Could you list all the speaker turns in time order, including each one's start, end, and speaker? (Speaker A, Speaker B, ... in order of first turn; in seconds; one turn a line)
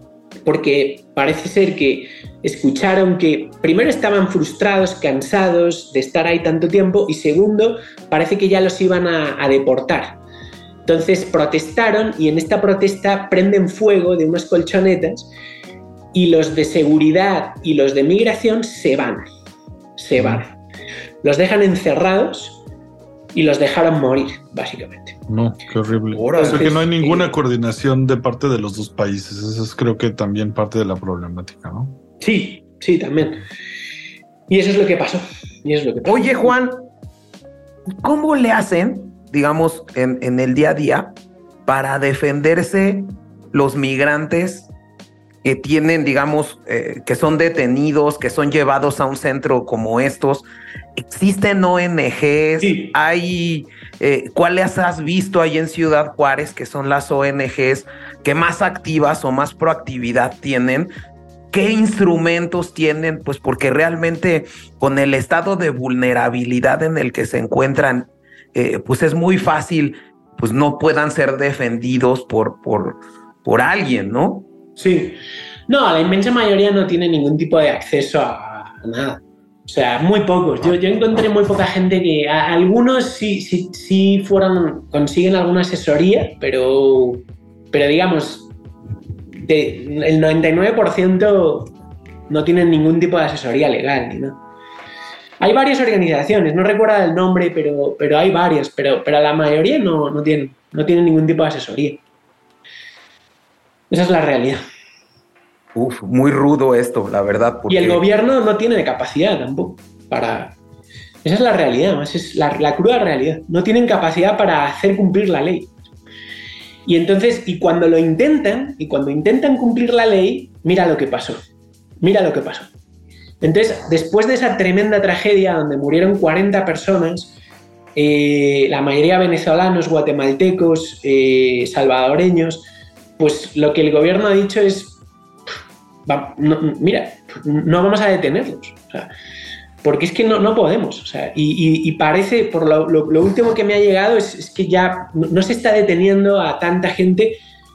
Speaker A: 0.5-10.2
Speaker A: 10.8-15.3
Speaker A: 16.1-19.3
Speaker A: 20.0-20.6
Speaker B: 20.2-20.4
Speaker A: 21.2-22.6
Speaker A: 23.3-25.2
Speaker B: 25.3-32.0
Speaker C: 26.1-26.8
Speaker A: 26.4-27.4
Speaker A: 32.2-33.4
Speaker A: 34.5-36.5
Speaker C: 36.0-36.9
Speaker C: 38.0-44.7
Speaker C: 45.4-50.5
Speaker C: 51.0-60.9
Speaker A: 52.6-52.9
Speaker C: 61.5-74.5
Speaker A: 74.8-75.2
Speaker A: 75.7-88.5
Speaker A: 89.4-91.7
Speaker A: 92.3-94.4
Speaker A: 95.4-102.0
Speaker A: 103.9-104.6
Speaker C: 105.8-108.0
Speaker A: 107.7-110.6
Speaker A: 111.2-115.7
Speaker A: 116.9-121.4
Speaker A: 122.0-122.7
Speaker A: 123.4-127.3
Speaker A: 128.0-132.7
Speaker A: 133.2-135.0
Speaker A: 136.1-139.1
Speaker A: 139.8-147.4